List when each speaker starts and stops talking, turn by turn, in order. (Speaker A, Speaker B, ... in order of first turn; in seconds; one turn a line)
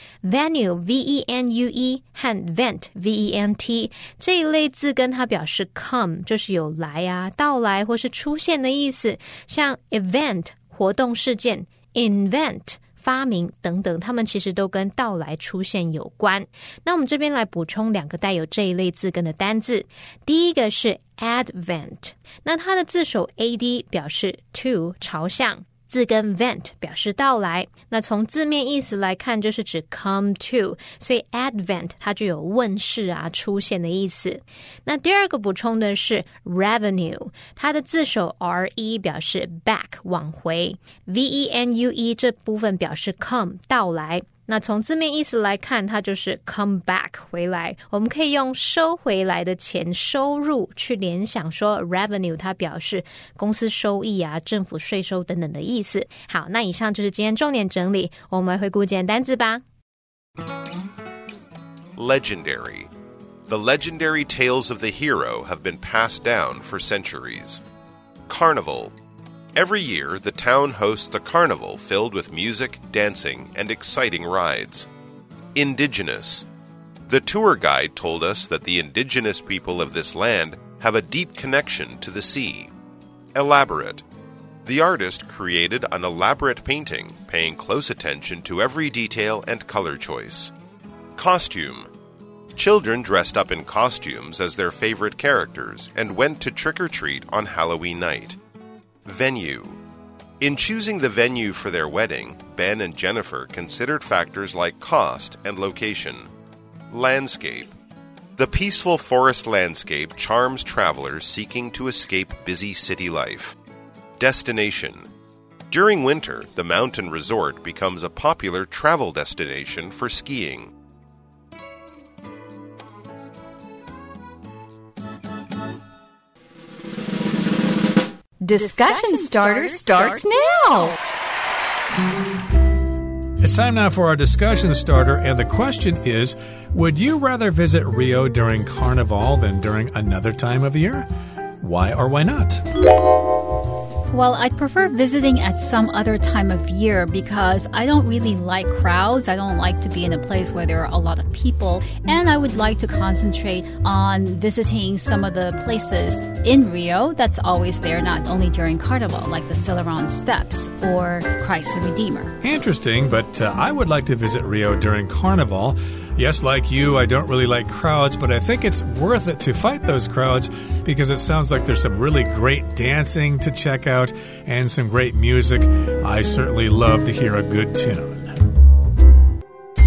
Speaker A: 0.2-59.6
Speaker B: 62.0-62.9
Speaker B: 63.5-67.6
Speaker B: 68.3-68.9
Speaker B: 69.5-74.9
Speaker B: 75.5-76.5
Speaker B: 77.1-82.7
Speaker B: 83.3-84.0
Speaker B: 84.7-90.5
Speaker B: 91.2-91.9
Speaker B: 92.5-98.4
Speaker B: 99.0-99.8
Speaker B: 100.4-106.3
Speaker B: 106.9-107.7
Speaker B: 108.4-113.5
Speaker B: 114.2-115.1
Speaker B: 115.7-120.7
Speaker C: 128.4-131.0
Speaker D: 128.5-130.4
Speaker E: 133.4-141.1
Speaker E: 141.6-142.6
Speaker D: 144.1-162.3
Speaker E: 162.4-178.5